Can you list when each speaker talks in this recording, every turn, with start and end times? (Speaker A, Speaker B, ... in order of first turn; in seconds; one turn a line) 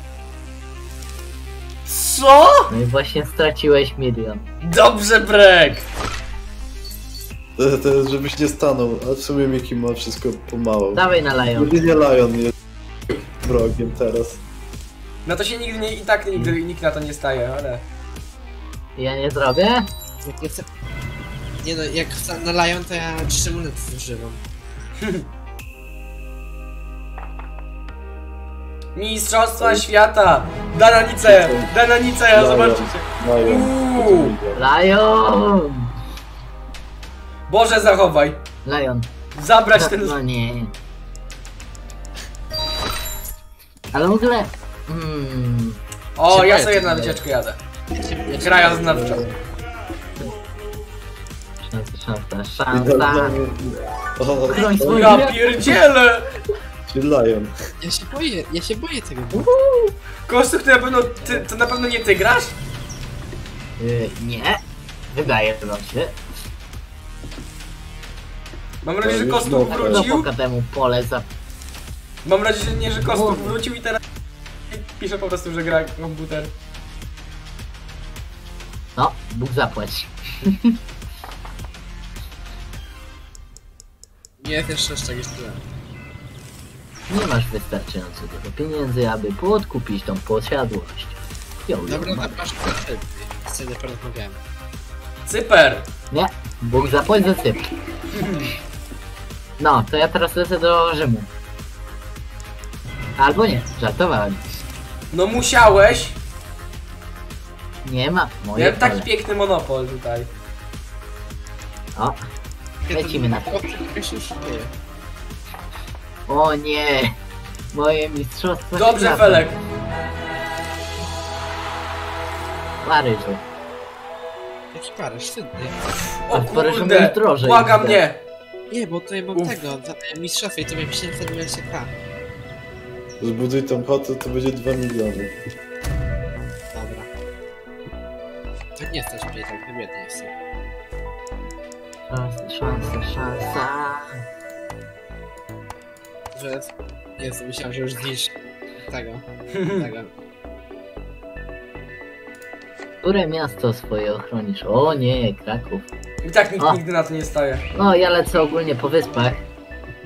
Speaker A: 1.9-2.7
Speaker B: 2.7-4.5
Speaker A: 4.6-5.9
Speaker C: 7.6-12.5
Speaker B: 10.9-11.9
Speaker C: 13.4-14.4
Speaker A: 15.2-17.9
Speaker B: 19.0-19.9
Speaker D: 20.2-20.7
Speaker D: 21.6-24.4
Speaker A: 25.0-25.3
Speaker A: 28.9-34.3
Speaker C: 29.6-29.9
Speaker C: 31.2-31.7
Speaker C: 32.3-34.6
Speaker B: 34.5-35.9
Speaker A: 37.5-38.4
Speaker B: 38.6-39.1
Speaker A: 39.4-40.2
Speaker B: 39.8-40.7
Speaker B: 43.9-45.8
Speaker A: 46.2-47.6
Speaker D: 46.3-46.6
Speaker B: 46.6-47.2
Speaker D: 47.9-49.4
Speaker A: 48.4-49.2
Speaker B: 51.6-53.3
Speaker C: 52.7-55.2
Speaker B: 54.5-55.4
Speaker A: 54.8-56.3
Speaker C: 56.9-57.5
Speaker D: 57.8-59.5
Speaker B: 59.3-60.0
Speaker A: 60.3-62.5
Speaker B: 63.8-64.6
Speaker B: 65.1-66.2
Speaker A: 68.8-70.3
Speaker C: 69.0-70.1
Speaker B: 69.7-71.3
Speaker A: 72.2-74.0
Speaker B: 73.0-73.6
Speaker A: 74.7-76.5
Speaker B: 79.0-80.8
Speaker D: 84.4-85.6
Speaker B: 87.1-92.8
Speaker D: 91.9-94.4
Speaker A: 95.3-95.9
Speaker B: 96.1-97.7
Speaker A: 98.1-98.5
Speaker B: 99.6-101.3
Speaker B: 103.2-104.6
Speaker A: 105.1-106.2
Speaker B: 107.8-109.1
Speaker A: 108.5-110.3
Speaker D: 112.9-114.7
Speaker B: 112.9-113.6
Speaker B: 116.3-117.2
Speaker B: 117.7-119.5
Speaker A: 118.8-119.6
Speaker B: 122.8-123.4
Speaker D: 124.7-125.8
Speaker A: 126.3-128.2
Speaker B: 126.3-128.0
Speaker D: 128.7-131.9
Speaker C: 133.2-135.4
Speaker D: 136.7-137.1
Speaker D: 138.8-140.3
Speaker B: 142.1-144.2
Speaker D: 146.3-150.1
Speaker A: 149.6-149.8
Speaker B: 153.0-155.9
Speaker A: 156.2-157.7
Speaker B: 157.7-159.4